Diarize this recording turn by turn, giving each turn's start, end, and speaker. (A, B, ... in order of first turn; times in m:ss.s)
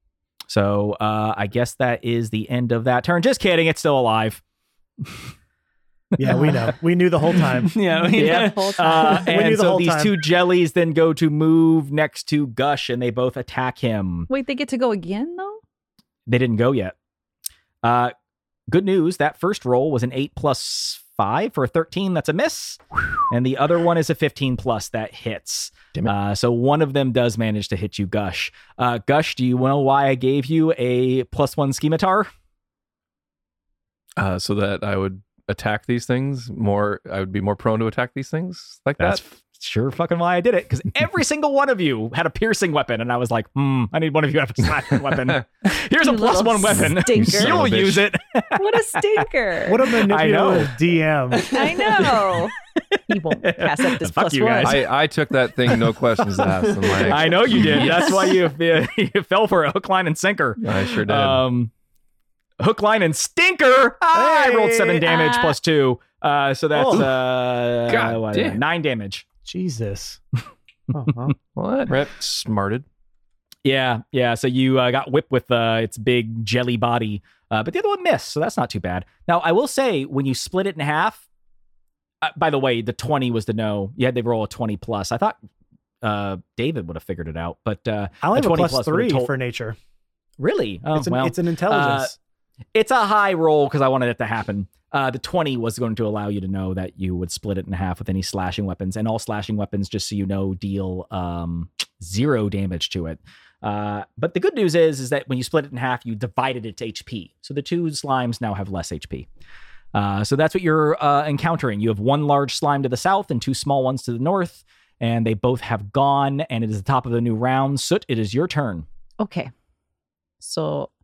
0:00.5-0:04.4 A
0:05.0-0:05.3 A
0:06.2-0:06.7 A
0:06.2-0:07.7 B
0:07.4-0:09.2 C
0:07.9-0:09.3 D
0:08.1-0:14.3 A
0:09.2-0:10.2 B
0:14.3-0:15.6 D
0:16.3-0:17.0 A
0:17.8-0:18.1 A
0:18.7-0:32.3 A
0:34.2-0:39.2 E
0:39.0-0:49.2 A
0:46.0-0:47.7 D
0:46.8-0:48.1 E
0:48.6-0:49.9 D
0:49.7-0:51.5 B
0:50.0-0:50.7 A
0:51.4-0:52.5 D
0:53.1-0:54.8 D
0:53.4-0:54.8 A
0:54.6-0:58.3 E
0:57.1-1:01.7 A
1:00.6-1:01.4 E
1:02.6-1:09.2 A
1:04.1-1:05.0 B
1:05.0-1:05.6 D
1:06.7-1:07.0 B
1:07.9-1:08.6 E
1:09.4-1:10.2 B
1:10.9-1:11.3 C
1:11.6-1:12.8 E
1:11.9-1:12.1 C
1:13.6-1:21.2 A
1:22.2-1:25.4 A
1:26.0-1:29.3 A
1:28.2-1:29.8 B
1:30.4-1:32.1 A
1:30.9-1:32.2 B
1:32.7-1:49.3 A
1:49.9-1:58.9 A
1:59.2-1:59.5 D
2:00.4-2:00.9 D